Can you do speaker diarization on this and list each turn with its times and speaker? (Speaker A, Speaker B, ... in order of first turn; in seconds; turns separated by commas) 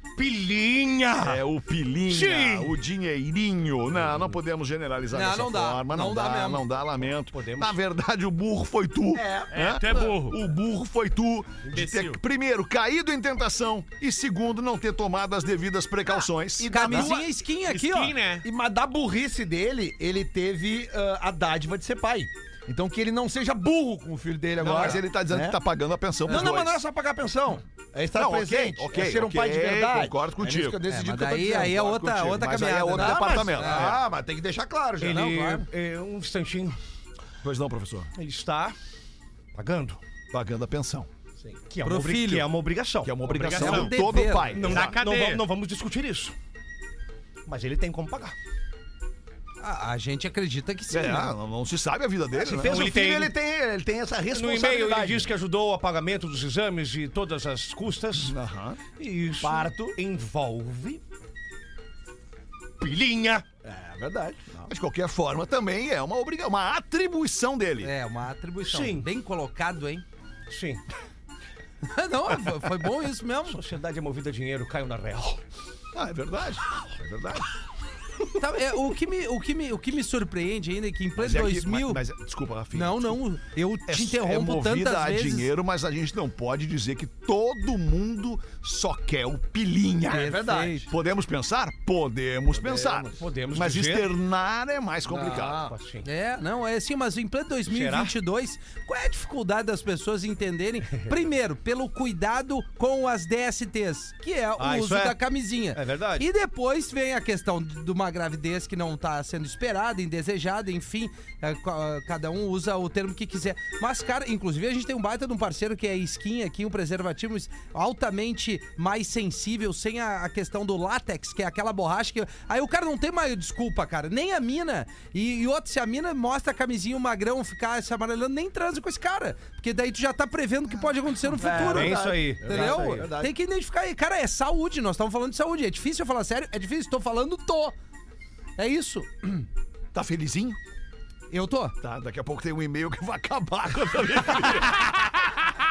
Speaker A: 0.1-1.4, Speaker B: 1.2-17.1, Speaker A: 2.1-2.8, Speaker C: 5.1-6.7, Speaker A: 7.3-7.8, Speaker D: 9.1-9.5, Speaker E: 9.5-10.4, Speaker E: 11.6-12.2, Speaker D: 16.6-17.2, Speaker C: 16.7-18.1, Speaker E: 17.6-18.4, Speaker D: 18.4-25.6, Speaker B: 24.6-26.8, Speaker D: 26.2-31.7, Speaker B: 28.1-30.8, Speaker C: 30.9-33.9, Speaker B: 31.4-34.0, Speaker D: 32.9-35.5, Speaker A: 35.0-36.8, Speaker C: 35.1-35.6, Speaker B: 37.4-38.1, Speaker A: 38.1-38.8, Speaker A: 39.5-40.0, Speaker B: 40.3-41.1, Speaker A: 41.4-43.9, Speaker C: 41.8-42.5, Speaker B: 43.0-45.0, Speaker E: 43.3-43.9, Speaker C: 43.5-44.6, Speaker A: 44.5-46.3, Speaker E: 44.6-45.4, Speaker A: 47.5-48.3, Speaker C: 49.6-51.3, Speaker B: 50.9-53.0, Speaker D: 52.4-55.3, Speaker A: 52.5-53.3, Speaker A: 54.3-58.4, Speaker B: 58.2-58.8, Speaker A: 59.0-61.0, Speaker D: 59.4-60.0, Speaker A: 62.8-63.5, Speaker D: 63.6-64.7, Speaker B: 64.7-67.9, Speaker C: 67.8-70.0, Speaker A: 68.6-69.1, Speaker A: 70.5-70.8, Speaker C: 71.9-73.6, Speaker A: 73.5-75.4, Speaker B: 75.9-77.5, Speaker C: 78.4-82.0, Speaker B: 81.2-83.2, Speaker C: 82.7-85.5, Speaker B: 83.9-95.7, Speaker C: 90.1-90.9, Speaker D: 90.1-90.8, Speaker D: 92.5-93.2, Speaker A: 93.2-94.1, Speaker A: 95.1-96.1, Speaker D: 95.3-95.7, Speaker C: 96.0-137.7, Speaker A: 97.7-98.1, Speaker A: 104.6-105.2, Speaker A: 105.7-106.3, Speaker D: 131.4-133.3, Speaker A: 131.5-133.1, Speaker C: 138.6-139.4, Speaker B: 139.9-140.6, Speaker C: 141.3-141.7, Speaker B: 141.8-145.3